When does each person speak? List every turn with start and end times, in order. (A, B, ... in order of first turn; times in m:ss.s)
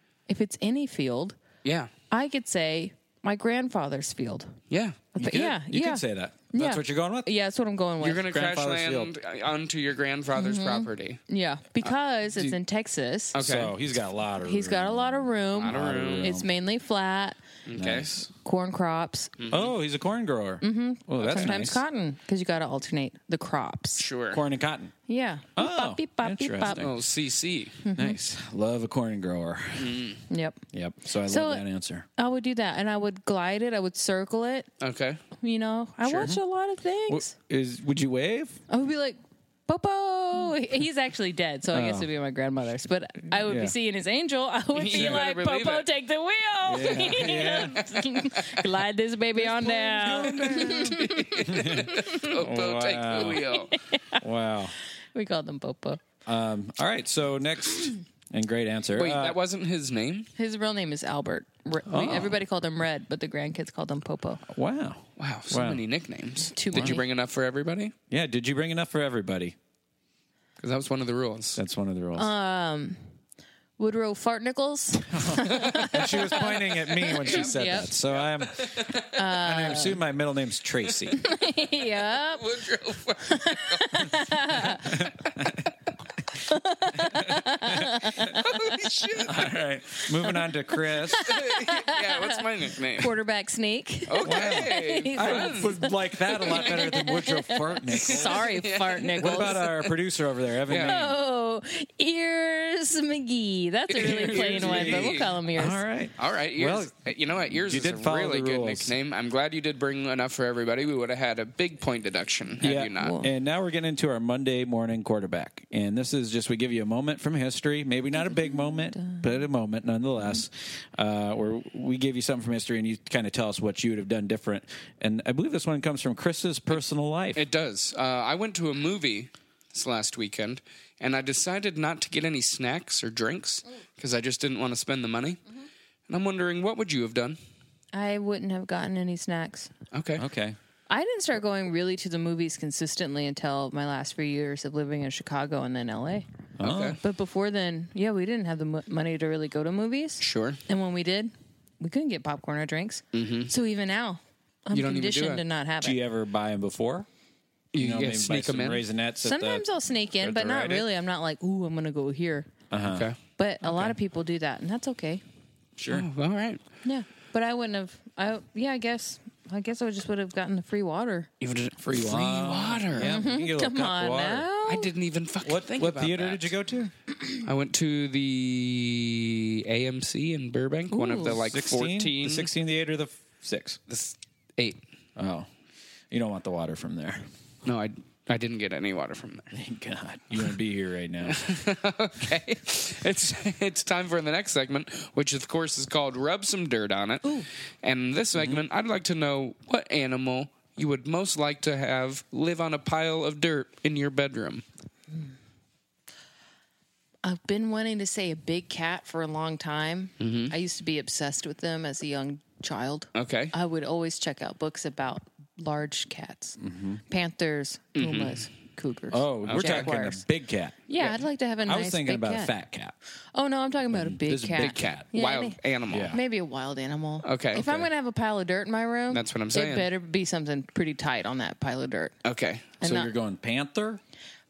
0:00.3-0:01.4 A
0:01.6-0:01.9 B
0:02.1-0:04.6 A
0:04.7-0:05.0 B
0:05.2-0:08.3 A
0:05.2-0:07.3 C
0:08.0-0:11.2 B
0:08.3-0:09.1 C
0:10.4-0:13.4 A
0:13.3-0:13.7 B
0:13.4-0:16.5 C
0:14.4-0:17.4 A
0:15.6-0:16.3 B
0:17.7-0:18.1 B
0:17.8-0:18.3 C
0:18.4-0:19.3 A
0:19.4-0:19.7 B
0:19.5-0:21.8 C
0:20.6-0:24.0 A
0:21.2-0:21.5 B
0:24.0-0:24.4 B
0:24.3-0:24.9 C
0:25.1-0:26.9 A
0:25.6-0:27.0 C
0:26.7-0:27.8 B
0:27.8-0:28.2 A
0:28.0-0:30.0 C
0:29.8-0:30.2 B
0:30.3-0:30.6 A
0:30.7-0:32.1 C
0:31.3-0:31.6 A
0:32.2-0:34.7 A
0:34.8-0:35.2 B
0:35.4-0:37.3 A
0:36.1-0:36.4 C
0:37.1-0:38.6 C
0:38.7-0:52.2 A
0:41.7-0:42.1 C
0:43.4-0:43.8 C
0:44.7-0:45.9 B
0:44.9-0:45.2 C
0:46.7-0:47.9 C
0:47.0-0:48.6 B
0:49.4-0:53.4 C
0:50.0-0:53.7 B
0:53.2-0:54.2 A
0:54.2-0:54.8 C
0:55.1-0:56.0 A
0:56.3-0:59.4 C
0:58.9-1:00.3 B
1:00.4-1:04.4 A
1:01.9-1:02.4 C
1:04.5-1:05.8 C
1:05.2-1:07.9 B
1:06.4-1:07.0 A
1:06.7-1:07.0 C
1:08.1-1:09.6 C
1:10.6-1:11.6 B
1:11.6-1:12.3 C
1:12.2-1:13.0 A
1:13.8-1:17.9 A
1:15.1-1:21.2 C
1:17.1-1:19.1 B
1:19.1-1:20.0 A
1:21.2-1:22.6 A
1:22.1-1:24.1 B
1:23.2-1:25.1 A
1:24.8-1:25.7 C
1:26.3-1:28.8 A
1:27.0-1:27.9 C
1:28.2-1:29.5 B
1:29.2-1:31.3 C
1:31.1-1:39.7 A
1:31.1-1:33.1 B
1:34.1-1:35.7 B
1:34.2-1:38.5 C
1:38.0-1:39.7 B
1:39.2-1:41.2 C
1:40.7-1:41.0 B
1:40.7-1:45.8 A
1:43.9-1:45.4 B
1:44.0-1:47.0 C
1:46.2-1:53.2 B
1:47.5-1:48.9 C
1:52.6-2:07.4 C
1:53.0-1:53.3 A
1:58.5-1:59.2 A
2:07.4-2:15.4 B
2:16.1-2:17.4 B
2:17.9-2:19.7 A
2:19.9-2:20.2 B
2:20.2-2:20.6 C
2:20.9-2:26.3 A
2:26.6-2:27.0 C
2:26.6-2:27.0 B
2:27.0-2:36.0 A
2:30.2-2:30.6 B
2:33.1-2:33.5 B
2:34.7-2:35.4 B
2:35.8-2:37.1 C
2:37.7-2:38.8 B
2:37.8-2:40.9 C
2:39.2-2:42.5 A
2:42.7-2:43.1 C
2:42.9-2:43.2 B
2:43.4-2:45.2 A
2:43.7-2:43.9 C
2:45.8-2:46.1 C
2:45.8-2:46.6 B
2:46.8-2:51.3 A
2:51.4-2:53.2 B
2:51.8-2:54.5 C
2:53.0-2:54.9 A
2:54.7-2:56.5 B
2:55.4-2:56.9 C
2:57.4-3:02.5 B
3:00.9-3:01.4 A
3:01.3-3:03.8 C
3:03.9-3:04.8 B
3:05.2-3:05.5 C
3:06.1-3:07.2 C
3:07.6-3:09.5 B
3:09.5-3:11.5 C
3:11.2-3:24.6 B
3:18.4-3:18.6 C
3:27.2-3:40.2 A
3:30.2-3:30.5 B
3:33.2-3:33.5 B
3:36.6-3:37.0 C
3:38.0-3:38.4 B
3:39.1-3:43.0 C
3:39.5-3:39.9 B
3:40.9-3:42.5 A
3:43.3-3:45.6 A
3:43.9-3:44.9 C
3:44.6-3:46.2 B
3:45.9-3:46.2 C
3:46.1-3:52.1 A
3:47.2-3:47.7 B
3:49.1-3:49.9 B
3:52.2-3:52.7 B
3:52.8-3:53.1 A
3:52.8-3:54.0 C